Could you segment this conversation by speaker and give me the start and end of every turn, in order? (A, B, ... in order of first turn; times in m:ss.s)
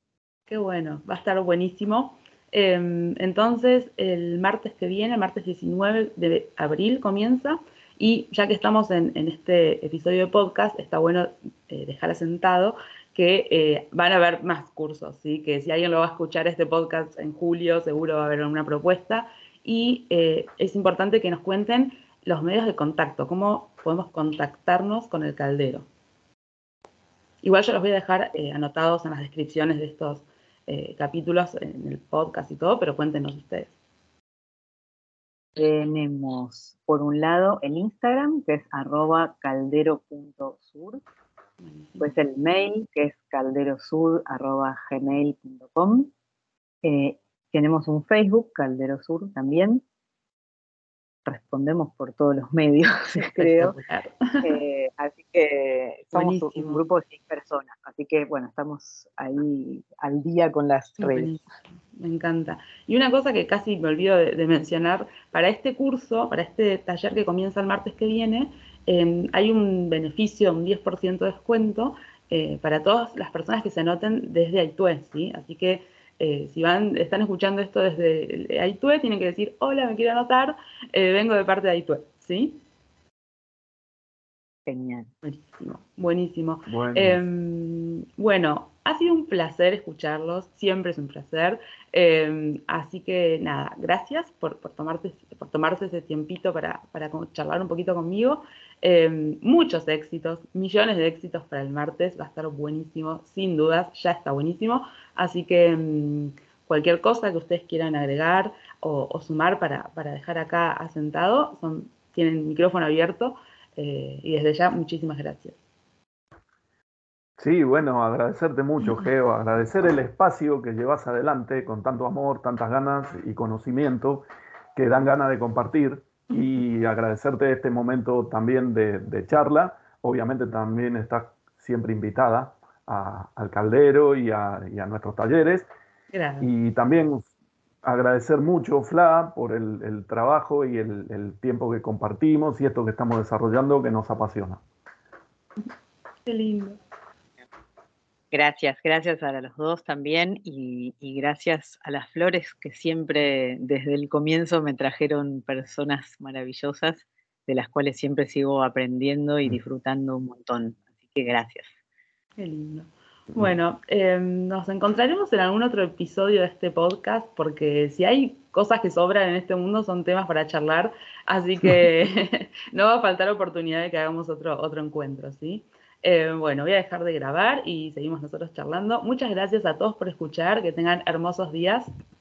0:00.5-0:25.9 A
0:27.4-0:33.7 A
0:35.6-0:41.0 B
0:41.6-0:42.1 A
0:42.0-0:46.1 B
0:46.8-0:49.8 B
0:51.2-0:53.8 B
0:53.2-0:54.5 A
0:54.4-1:01.4 B
0:56.1-0:56.8 A
1:01.0-1:22.6 A
1:24.7-1:25.1 B
1:25.2-1:55.6 A
1:26.7-1:27.2 C
1:57.4-2:15.7 C
2:16.1-2:16.5 A
2:16.4-2:17.3 C
2:17.8-2:24.6 C
2:26.2-2:26.8 A
2:28.3-2:41.7 B
2:42.4-3:01.9 A